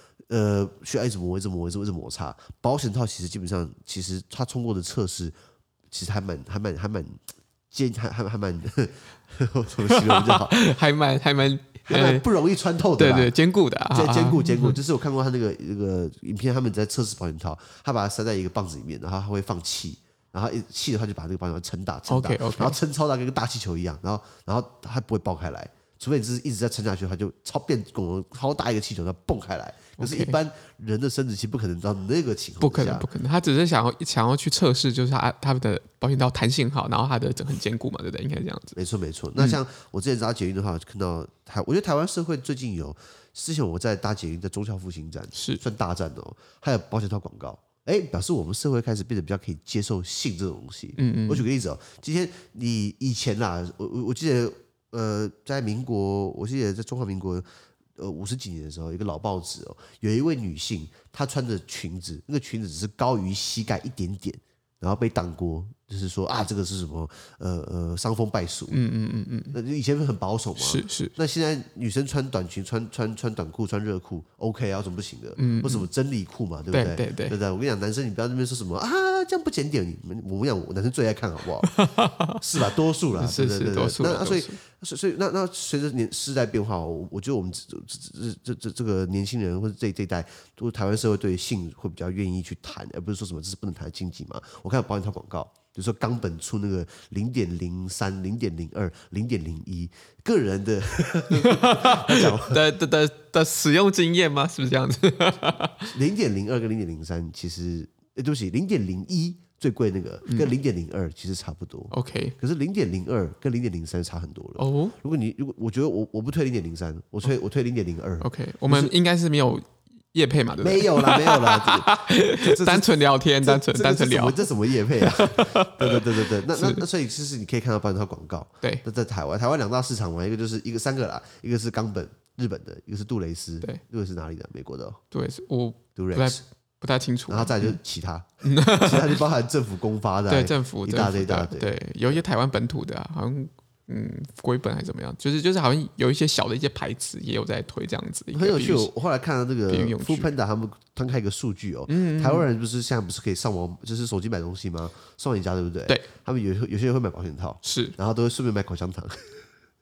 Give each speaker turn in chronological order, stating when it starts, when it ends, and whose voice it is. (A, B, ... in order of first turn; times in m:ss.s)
0:00.3-0:05.4 A
0:05.9-0:10.6 A
0:09.9-0:12.2 B
0:11.9-0:13.4 A
0:13.0-0:14.8 B
0:13.9-0:33.1 A
0:22.1-0:22.8 B
0:30.0-0:30.4 B
0:32.6-0:38.8 B
0:38.8-0:57.4 A
0:45.4-0:45.6 B
0:51.0-0:51.5 B
0:58.0-1:08.8 A
1:08.7-1:09.6 B
1:09.5-1:42.6 A
1:10.6-1:11.1 B
1:15.4-1:15.9 B
1:16.7-1:17.4 B
1:21.6-1:24.6 B
1:41.3-1:45.9 B
1:45.9-1:58.9 A
1:50.3-1:50.5 B
1:51.9-1:52.4 B
1:54.6-1:55.0 B
1:58.2-2:06.8 B
2:00.6-2:15.0 A
2:15.1-2:17.8 B
2:16.0-2:16.4 A
2:17.3-2:22.2 A
2:18.4-2:19.2 B
2:20.3-2:28.9 B
2:28.3-2:39.4 A
2:29.7-2:30.3 B
2:31.9-2:32.5 B
2:37.6-2:38.0 B